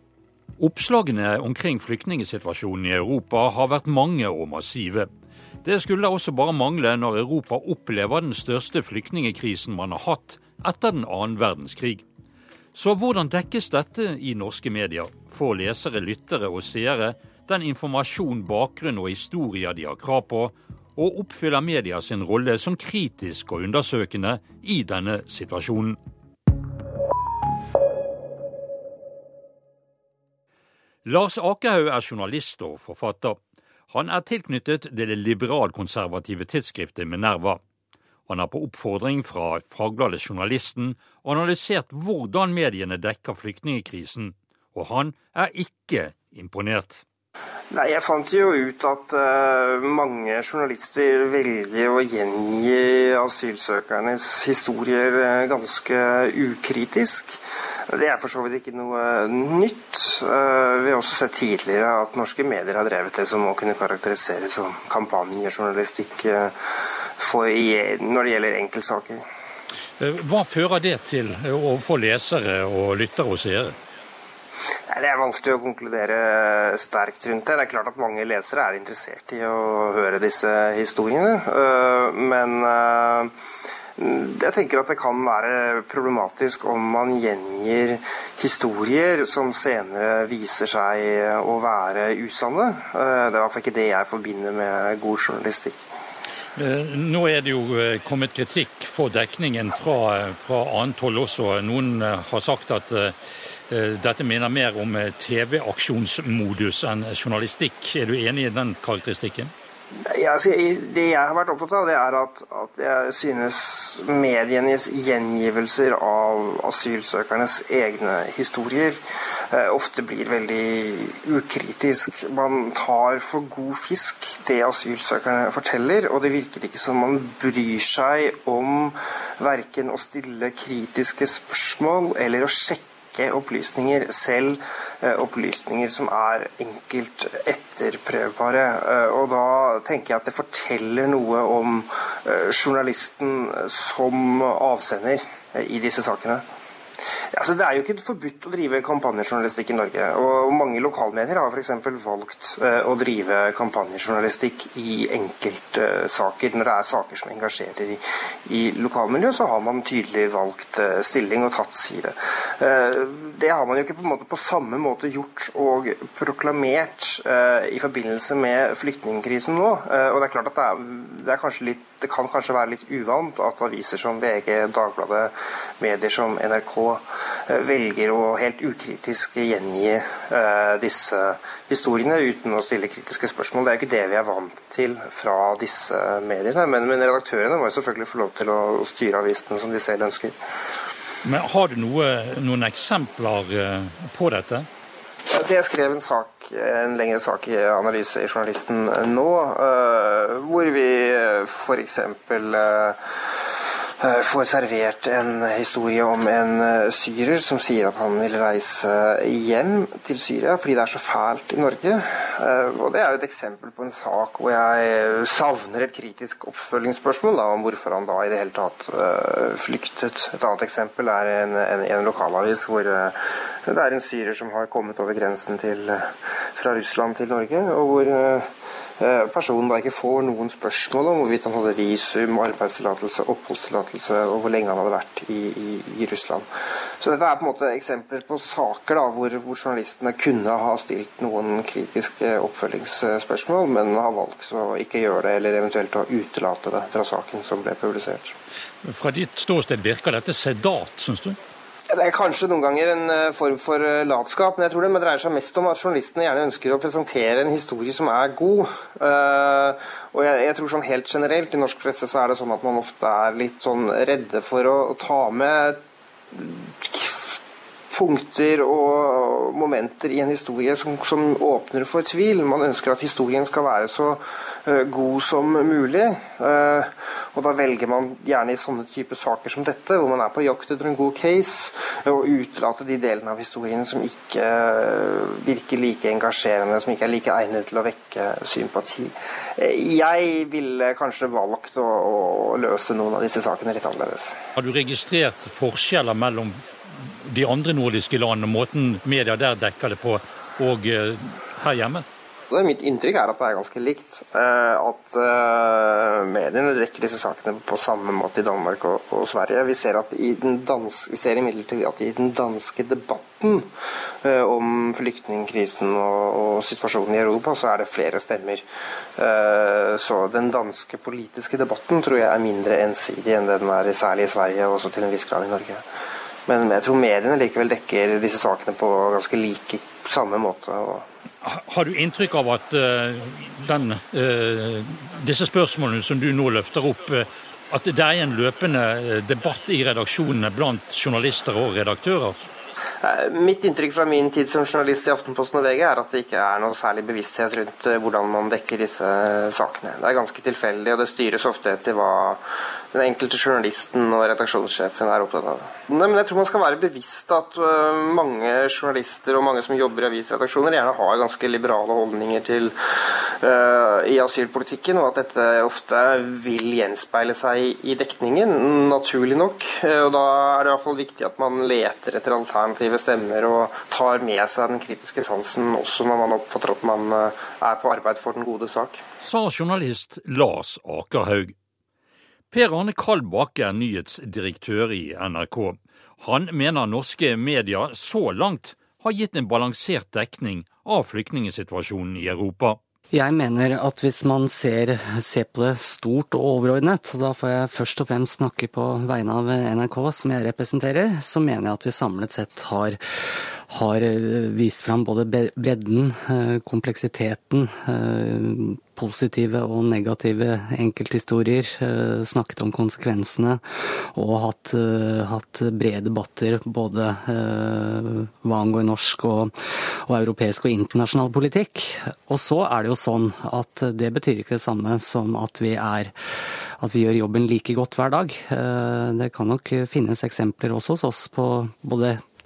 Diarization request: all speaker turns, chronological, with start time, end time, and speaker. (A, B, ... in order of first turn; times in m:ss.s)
0:00.6-0:05.1 A
0:05.6-0:12.0 A
0:12.7-0:26.0 A
0:31.0-0:33.4 A
0:33.9-0:37.6 A
0:38.3-0:47.0 A
0:47.7-1:06.5 B
1:07.2-1:09.2 B
1:10.0-1:13.8 A
1:14.9-1:23.3 B
1:24.0-1:35.8 B
1:36.6-1:43.2 A
1:43.7-1:49.5 A
1:50.0-2:26.4 B
2:27.3-3:10.4 B
3:11.2-3:14.7 A
3:15.2-3:56.5 B
3:57.0-4:08.3 B
4:08.8-4:11.4 A
4:11.9-4:27.4 B
4:27.9-4:54.4 B
4:54.6-5:02.0 A
5:02.5-5:13.7 B
5:14.2-5:18.6 B
5:19.2-5:25.8 B
5:26.4-5:31.0 B
5:31.4-5:42.4 A
5:43.0-5:52.4 B
5:52.9-6:02.7 B
6:03.3-6:19.0 B
6:19.2-6:21.5 A
6:22.5-6:32.8 A
6:33.1-7:06.1 C
7:06.8-7:12.3 C